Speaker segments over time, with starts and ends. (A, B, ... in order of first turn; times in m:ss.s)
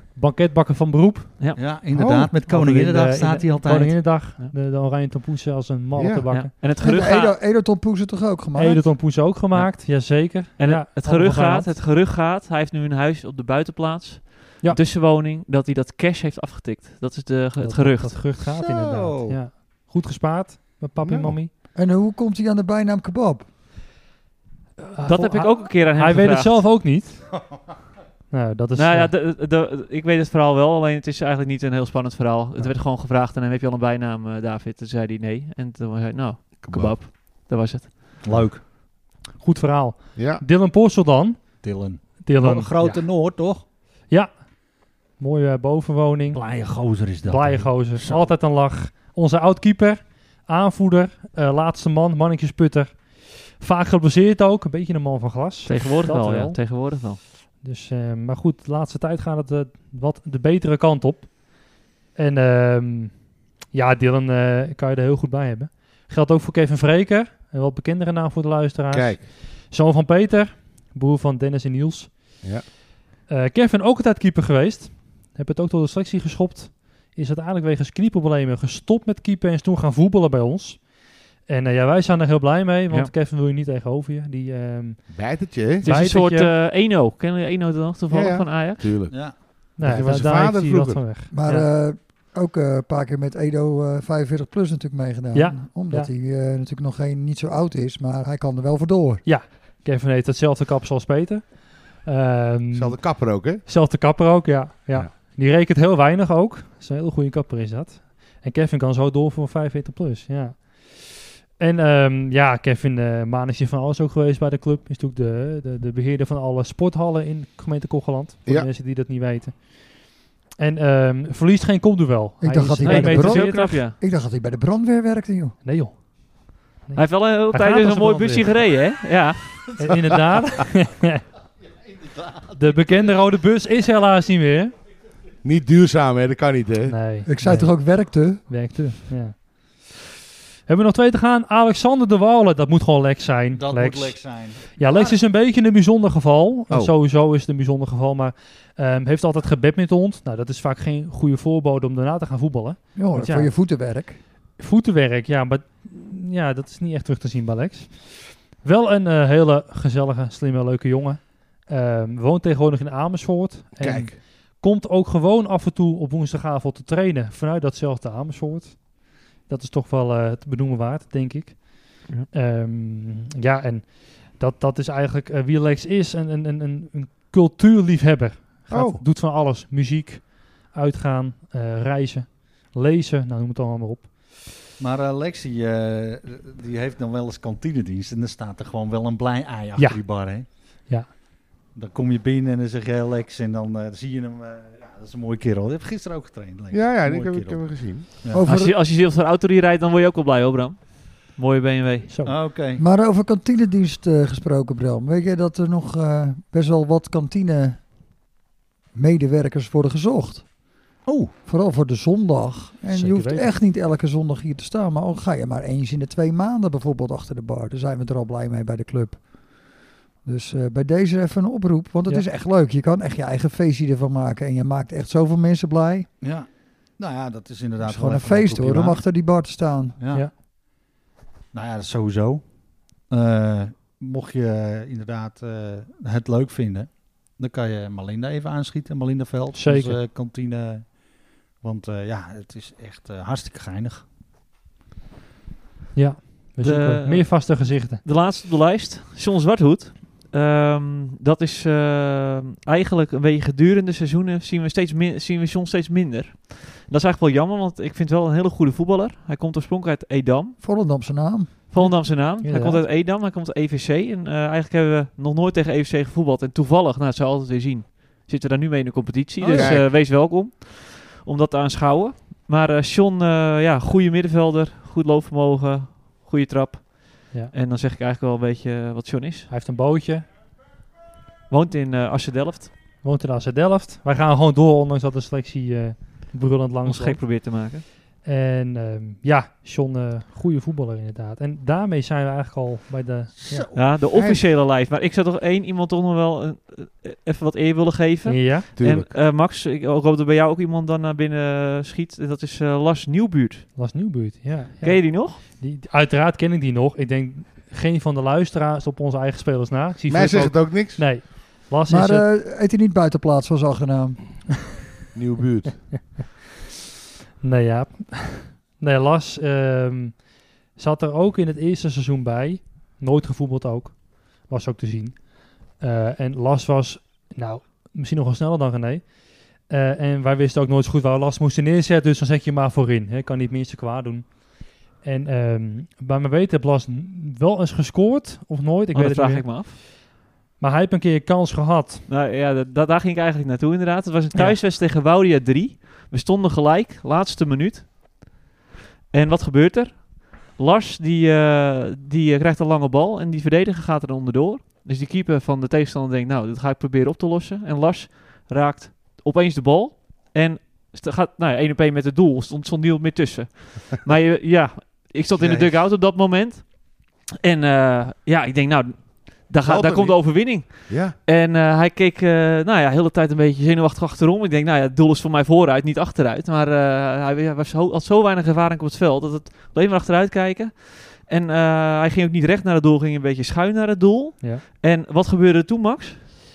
0:00.2-0:01.4 A
0:01.6-0:04.2 B
0:01.9-0:02.3 C
0:02.5-0:06.5 A
0:06.0-0:06.2 C
0:06.3-0:07.4 D
0:06.8-0:08.9 E
0:08.6-0:11.7 A
0:09.5-0:18.3 D
0:17.6-0:21.5 A
0:18.5-0:19.4 B
0:21.0-0:21.4 C
0:21.7-0:23.5 E
0:24.9-0:27.4 A
0:25.0-0:26.9 D
0:28.3-0:29.1 A
0:28.8-0:38.1 D
0:36.6-0:37.0 C
0:38.2-0:38.6 B
0:39.4-0:41.4 A
0:40.2-0:40.4 C
0:41.6-0:43.6 B
0:42.2-0:43.0 A
0:44.1-0:46.4 A
0:46.3-0:48.4 B
0:47.3-0:56.6 A
0:55.7-0:57.2 D
0:57.6-1:12.5 A
1:08.9-1:09.2 C
1:13.3-1:21.0 A
1:21.5-1:26.5 A
1:25.1-1:25.8 C
1:25.8-1:29.0 D
1:28.1-1:31.0 C
1:29.1-1:29.4 B
1:29.8-1:31.6 A
1:31.3-1:39.2 E
1:35.3-1:36.1 A
1:39.2-2:03.8 A
1:42.7-1:43.7 C
2:02.4-2:05.6 E
2:02.8-2:04.0 D
2:05.6-2:08.5 A
2:07.0-2:09.8 D
2:09.8-2:11.2 A
2:12.5-2:14.7 A
2:15.4-2:17.0 C
2:16.9-2:19.9 A
2:17.2-2:18.4 E
2:20.7-2:33.5 A
2:23.5-2:25.2 B
2:33.0-2:34.2 E
2:34.6-3:04.4 A
2:43.8-2:44.2 C
2:58.7-2:59.0 C
3:04.8-3:10.5 B
3:11.7-3:18.4 B
3:16.7-3:18.1 C
3:18.3-3:18.8 E
3:18.4-3:22.1 D
3:22.1-3:22.4 A
3:22.2-3:22.8 B
3:22.8-3:27.8 E
3:28.9-3:30.6 E
3:31.0-3:31.3 B
3:31.5-3:46.1 E
3:32.9-3:33.5 A
3:46.2-3:49.1 B
3:47.8-3:50.0 E
3:50.0-3:50.3 B
3:51.5-4:04.0 B
3:59.5-4:00.0 A
4:06.0-4:08.0 A
4:06.6-4:20.6 D
4:20.6-4:21.5 E
4:21.7-4:39.5 D
4:21.8-4:22.8 A
4:29.5-4:29.9 C
4:39.5-4:40.3 A
4:41.5-4:42.7 D
4:43.0-4:47.2 A
4:46.8-4:47.9 D
4:48.2-4:53.7 A
4:53.4-4:53.8 B
4:53.7-5:03.7 D
4:54.1-4:54.4 C
4:58.3-4:58.7 A
4:58.8-4:59.1 C
5:03.8-5:12.3 A
5:04.8-5:05.5 D
5:10.1-5:11.3 C
5:11.9-5:14.4 E
5:15.1-5:16.1 C
5:17.4-5:40.0 A
5:38.9-5:39.8 D
5:40.6-5:42.1 A
5:42.1-5:48.3 D
5:44.3-5:44.6 A
5:49.1-6:26.3 D
6:05.4-6:05.7 B
6:09.6-6:11.2 C